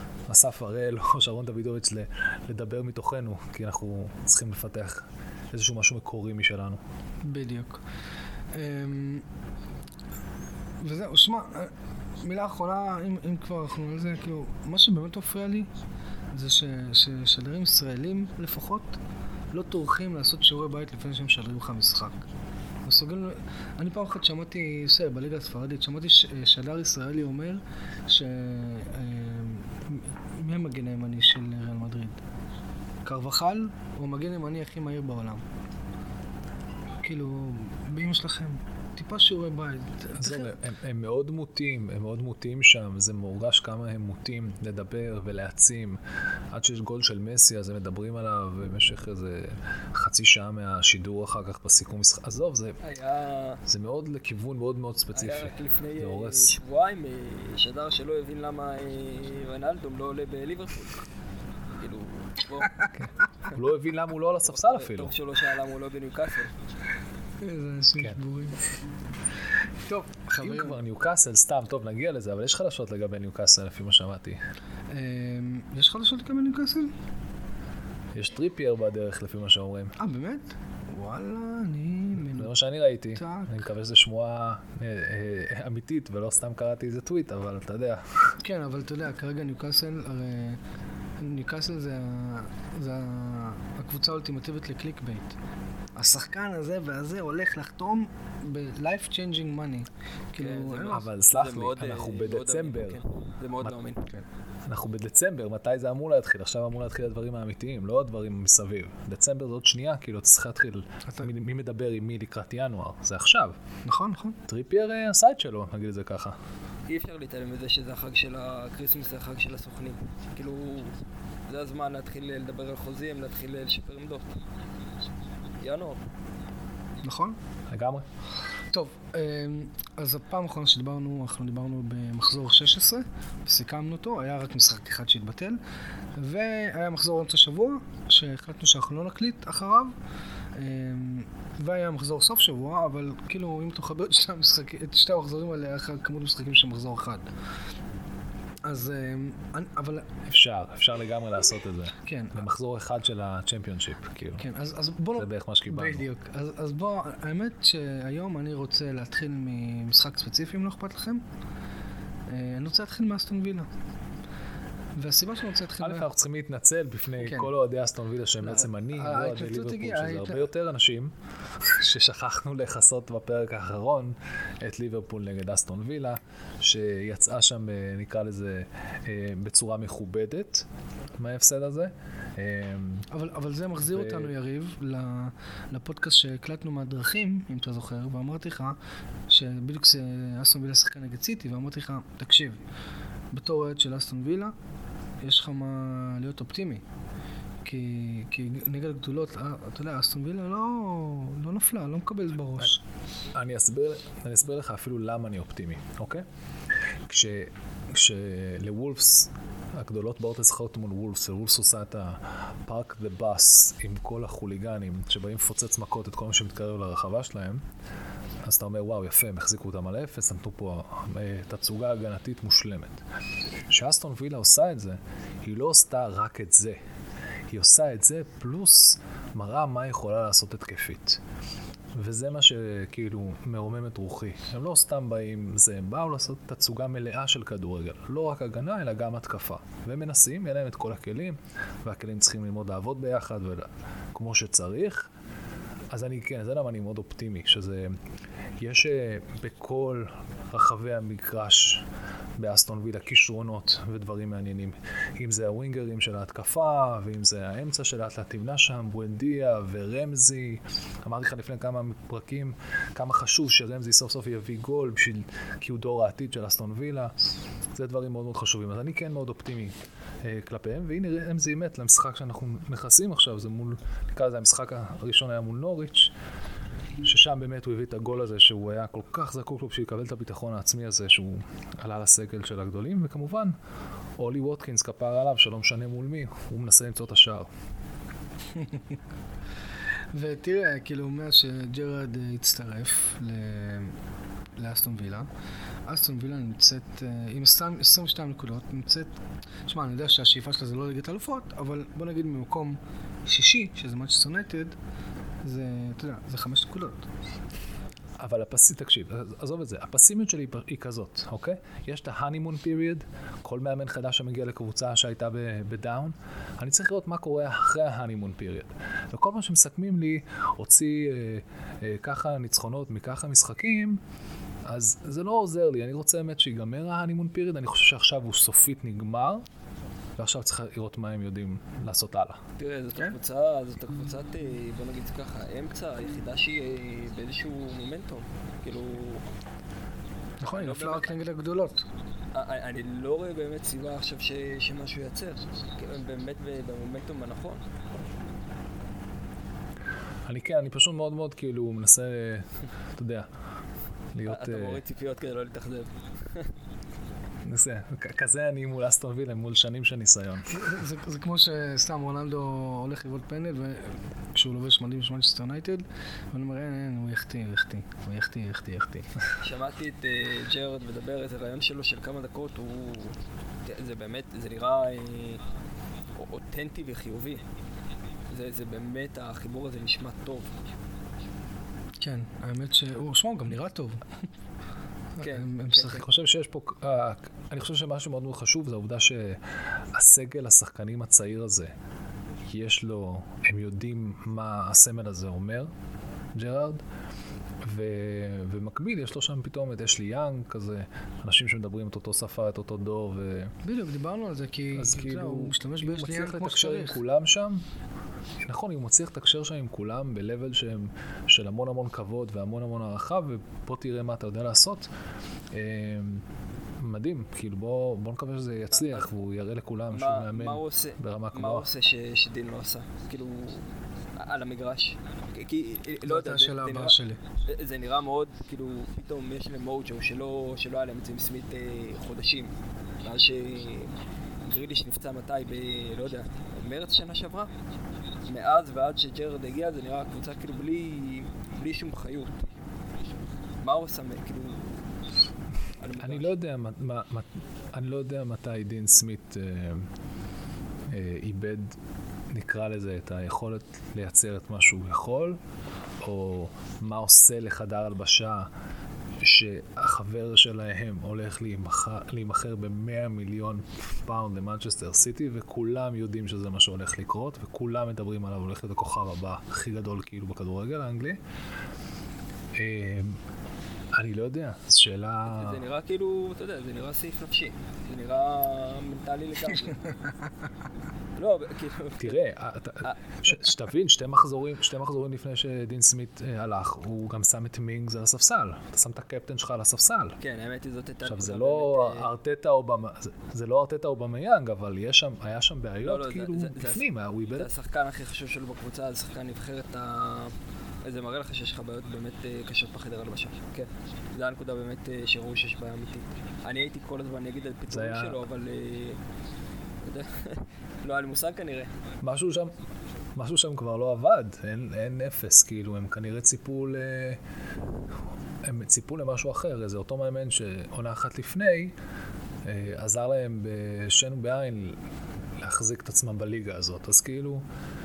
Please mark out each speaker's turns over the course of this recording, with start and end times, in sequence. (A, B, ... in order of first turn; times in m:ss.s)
0:00.3-0:06.8 A
0:07.2-0:07.8 B
0:08.5-0:09.2 B
0:10.8-0:15.7 B
0:16.3-0:19.0 B
0:19.5-0:22.2 B
0:22.8-0:32.2 B
0:33.0-0:35.4 B
0:37.0-0:40.6 B
0:40.2-0:46.0 A
0:46.5-0:52.8 A
0:52.8-0:53.6 C
0:53.6-0:56.6 A
0:55.1-1:01.0 C
1:01.8-1:02.9 C
1:02.9-1:05.2 A
1:04.4-1:06.5 C
1:07.4-1:08.7 B
1:09.9-1:10.8 B
1:10.4-1:14.4 A
1:14.9-1:16.9 B
1:18.1-1:20.0 A
1:20.0-1:22.5 B
1:22.2-1:28.4 A
1:23.1-1:23.6 B
1:28.4-1:30.6 B
1:31.2-1:35.3 B
1:36.0-1:41.1 B
1:40.4-1:44.1 C
1:40.8-1:43.0 A
1:44.6-1:53.6 A
1:53.8-1:54.4 B
1:54.4-1:56.4 A
1:56.9-2:04.4 C
2:05.6-2:06.0 C
2:07.0-2:07.4 B
2:07.7-2:08.0 A
2:08.7-2:15.6 B
2:16.2-2:19.9 B
2:20.5-2:27.2 B
2:28.6-2:30.1 B
2:30.3-2:34.5 A
2:32.0-2:32.4 B
2:34.4-2:41.2 B
2:35.1-2:36.1 A
2:42.3-2:43.7 B
2:45.0-2:46.1 B
2:45.8-3:00.7 A
2:47.2-2:47.5 B
2:48.4-2:50.4 B
3:01.2-3:03.1 A
3:03.1-3:08.8 B
3:03.8-3:04.3 A
3:09.3-3:12.6 B
3:13.3-3:14.5 B
3:15.2-3:16.8 B
3:17.6-3:22.8 B
3:23.3-3:26.2 A
3:27.1-3:37.6 A
3:38.4-3:43.0 A
3:43.7-3:46.8 A
3:47.5-3:51.2 A
3:51.9-4:05.1 A
4:05.9-4:08.0 A
4:08.6-4:11.9 A
4:12.4-4:27.1 A
4:27.7-4:36.1 A
4:37.0-4:43.6 A
4:44.2-4:47.5 A
4:48.5-4:49.0 B
4:50.1-4:54.0 B
4:54.6-4:55.3 B
4:55.9-4:59.1 B
4:59.7-5:04.8 B
5:05.4-5:07.1 B
5:08.2-5:24.0 A
5:24.6-5:29.4 A
5:30.2-5:32.4 A
5:32.6-5:39.2 C
5:40.4-5:41.8 B
5:40.5-5:41.1 C
5:42.3-5:47.6 C
5:50.2-5:53.3 A
5:54.1-5:54.8 A
5:54.2-5:56.5 C
5:57.4-6:00.9 A
6:00.5-6:09.1 B
6:09.4-6:15.4 C
6:16.2-6:17.4 C
6:18.3-6:20.5 C
6:22.0-6:24.3 B
6:25.2-6:26.0 C
6:25.2-6:26.1 B
6:25.9-6:31.7 A
6:32.5-6:35.7 A
6:36.3-6:36.8 A
6:37.6-6:43.5 A
6:43.6-6:47.0 B
6:44.7-6:47.6 A
6:48.4-6:54.9 A
6:55.5-6:56.2 A
6:56.8-7:01.7 A
6:58.7-6:59.1 C
6:59.9-7:17.5 C
7:06.0-7:07.2 B
7:18.3-7:22.4 C
7:23.6-7:24.9 C
7:25.8-7:26.3 C
7:26.0-7:29.9 A
7:30.9-7:31.8 A
7:32.3-7:35.4 A
7:36.0-7:38.5 A
7:39.2-7:51.2 A
7:52.5-7:53.2 A
7:53.9-7:55.6 A
7:55.3-8:00.0 C
8:01.2-8:02.2 C
8:02.0-8:10.2 A
8:10.2-8:12.1 C
8:11.0-8:17.5 A
8:15.8-8:29.0 C
8:27.7-8:28.2 A
8:29.9-8:31.7 C
8:32.0-8:32.5 A
8:33.2-8:37.2 A
8:38.4-8:41.8 A
8:42.4-8:44.8 A
8:45.4-8:47.4 A